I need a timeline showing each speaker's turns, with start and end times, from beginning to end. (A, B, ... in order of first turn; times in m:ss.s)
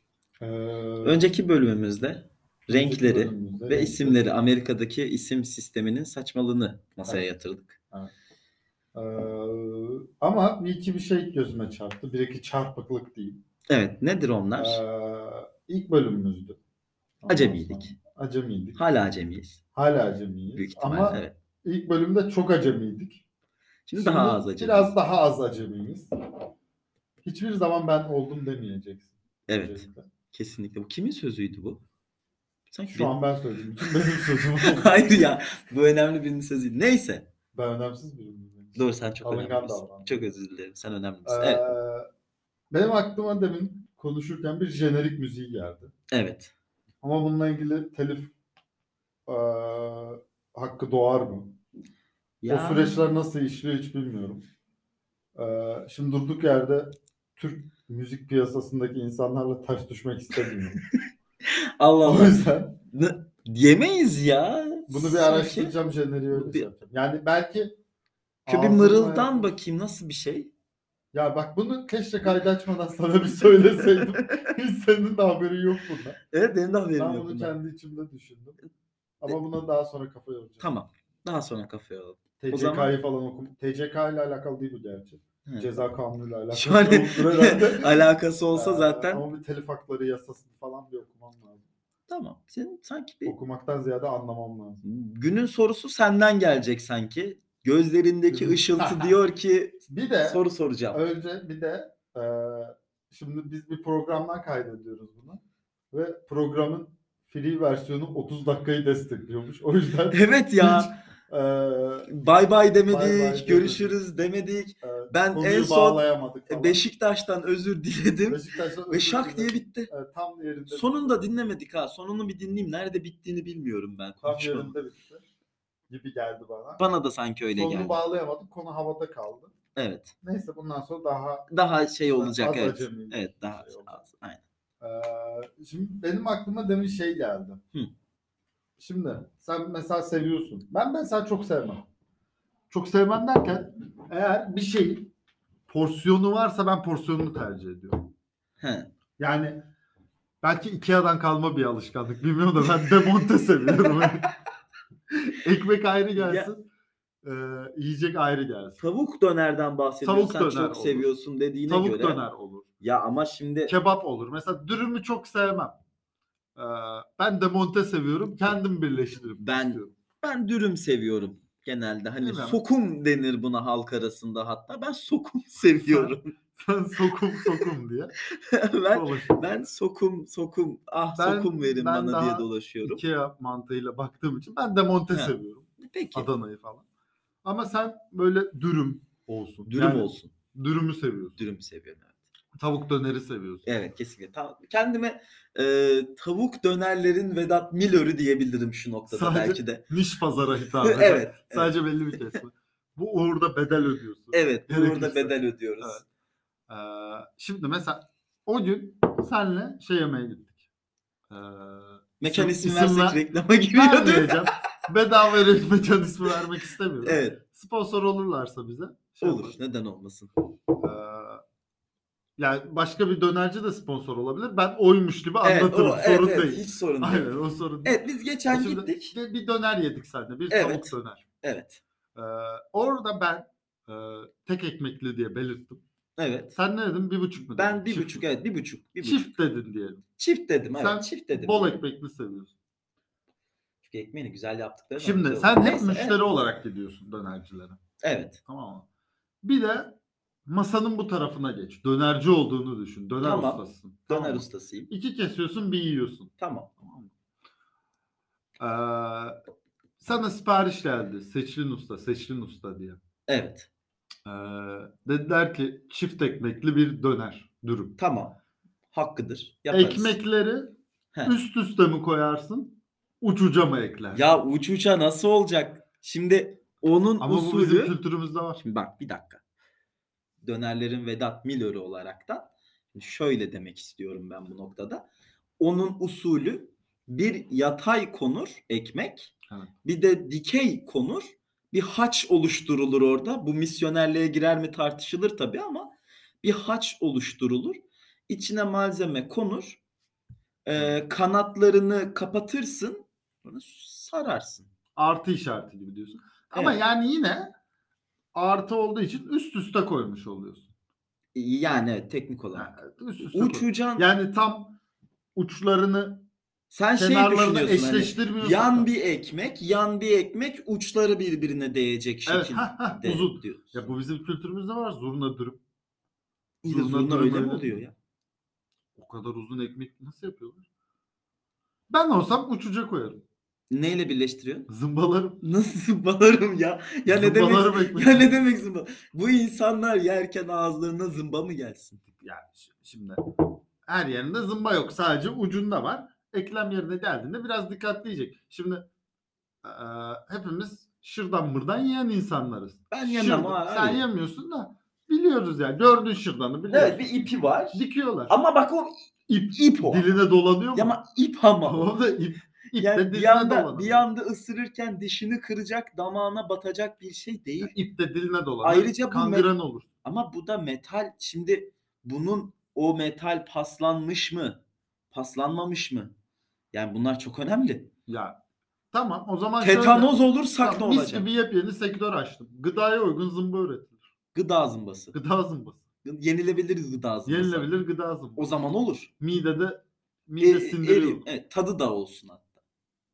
0:00.4-0:01.2 A
0:01.0-0:07.8 B
0:02.7-0:04.2 A
0:08.9-0:13.4 A
0:13.7-0:14.8 B
0:14.6-0:16.6 A
0:17.2-0:18.8 A
0:17.3-0:17.9 B
0:18.8-0:19.6 B
0:19.8-0:23.2 A
0:20.6-0:21.3 B
0:23.9-0:24.9 B
0:23.9-0:26.1 A
0:27.2-0:30.1 A
0:29.5-0:31.8 B
0:32.7-0:33.2 B
0:32.9-0:35.2 A
0:33.8-0:37.3 B
0:37.6-0:40.4 A
0:38.8-0:41.8 B
0:41.3-0:42.1 A
0:42.7-0:45.9 A
0:46.1-0:46.5 B
0:47.0-0:48.3 A
0:49.3-0:51.6 A
0:52.4-0:53.0 B
0:52.4-0:54.4 A
0:55.4-1:00.8 A
1:00.4-1:00.6 B
1:01.4-1:05.7 B
1:02.0-1:02.8 A
1:04.9-1:07.7 A
1:06.3-1:06.7 B
1:08.5-1:09.5 A
1:08.5-1:10.5 B
1:11.1-1:16.2 A
1:13.7-1:14.5 B
1:16.3-1:17.5 B
1:17.0-1:18.6 A
1:19.2-1:20.7 A
1:20.6-1:22.9 B
1:22.4-1:31.7 A
1:25.4-1:25.8 B
1:26.5-1:29.2 B
1:32.1-1:33.4 B
1:33.3-1:34.8 A
1:34.8-1:41.0 B
1:38.3-1:39.2 A
1:39.9-1:52.1 A
1:50.1-1:50.9 B
1:52.1-1:59.9 B
1:52.9-1:54.0 A
1:54.8-1:56.8 A
1:58.3-2:01.2 A
2:00.7-2:04.8 B
2:04.2-2:05.3 A
2:05.9-2:06.8 A
2:06.8-2:08.0 B
2:07.5-2:09.5 A
2:09.8-2:10.1 B
2:10.2-2:11.5 A
2:11.5-2:14.4 B
2:12.1-2:14.0 A
2:14.8-2:17.6 A
2:18.8-2:21.9 A
2:22.7-2:25.1 A
2:25.7-2:28.1 A
2:28.6-2:28.9 B
2:29.2-2:29.6 A
2:30.4-2:34.3 A
2:33.9-2:34.3 B
2:35.1-2:36.7 A
2:36.2-2:36.5 B
2:37.2-2:38.8 A
2:38.8-2:42.2 B
2:40.0-2:41.1 A
2:41.7-2:42.7 A
2:42.8-2:43.8 B
2:43.7-2:45.8 A
2:46.6-2:49.9 A
2:49.4-2:56.4 B
2:52.2-2:52.6 A
2:55.6-2:58.1 A
2:57.3-2:57.7 B
2:58.3-3:03.0 B
2:58.9-2:59.7 A
3:01.2-3:06.8 A
3:05.1-3:06.3 B
3:07.4-3:11.4 A
3:09.7-3:10.3 B
3:11.4-3:12.2 B
3:12.6-3:13.7 A
3:13.7-3:19.9 B
3:19.1-3:26.0 A
3:20.8-3:22.4 B
3:24.3-3:26.0 B
3:26.7-3:30.6 A
3:31.3-3:33.2 A
3:32.2-3:34.6 B
3:33.7-3:39.6 A
3:37.0-3:37.4 B
3:39.2-3:40.3 B
3:40.8-3:41.4 A
3:42.4-3:51.2 A
3:45.4-3:49.2 B
3:50.5-3:51.8 B
3:52.2-3:55.8 A
3:56.2-3:56.6 B
3:56.6-3:58.3 A
3:57.6-3:59.3 B
3:59.0-4:00.0 A
4:00.2-4:01.8 B
4:00.8-4:02.5 A
4:03.8-4:06.2 B
4:05.0-4:07.8 A
4:08.0-4:08.4 B
4:08.5-4:08.9 A
4:09.4-4:17.1 A
4:13.2-4:14.9 B
4:16.4-4:16.7 B
4:18.6-4:19.4 A
4:20.0-4:23.0 A
4:23.3-4:23.7 B
4:24.2-4:28.0 A
4:28.0-4:28.4 B
4:28.9-4:30.2 B
4:29.7-4:30.8 A
4:31.3-4:34.2 A
4:34.1-4:38.0 B
4:37.2-4:38.6 A
4:38.6-4:39.4 B
4:40.4-4:45.1 B
4:45.6-4:49.3 B
4:49.8-4:59.8 B
5:00.6-5:04.7 B
5:05.0-5:07.6 A
5:06.5-5:06.8 B
5:08.3-5:10.7 A
5:11.4-5:14.1 B
5:12.5-5:14.8 A
5:15.4-5:16.3 A
5:16.7-5:23.9 B
5:17.0-5:18.9 A
5:22.3-5:25.6 A
5:26.6-5:27.9 B
5:26.6-5:27.8 A
5:29.0-5:30.7 A
5:31.9-5:33.2 A
5:33.7-5:34.7 B
5:34.7-5:35.4 A
5:35.4-5:42.0 B
5:37.1-5:38.4 A
5:42.0-5:48.9 A
5:49.6-5:57.1 A
5:52.9-5:54.0 B
5:56.7-5:58.9 B
5:57.7-5:58.4 A
5:59.3-6:01.0 A
5:59.5-6:00.1 B
6:00.7-6:01.9 B
6:01.6-6:04.0 A
6:02.8-6:07.7 B
6:07.6-6:09.9 A
6:08.6-6:09.5 B
6:10.0-6:14.6 B
6:15.1-6:16.1 B
6:16.7-6:17.9 B
6:18.1-6:18.4 A
6:18.9-6:24.0 A
6:19.6-6:21.3 B
6:24.3-6:25.2 B
6:25.1-6:25.8 A
6:26.0-6:27.7 B
6:27.3-6:28.5 A
6:28.4-6:29.1 B
6:29.2-6:31.3 A
6:30.4-6:32.6 B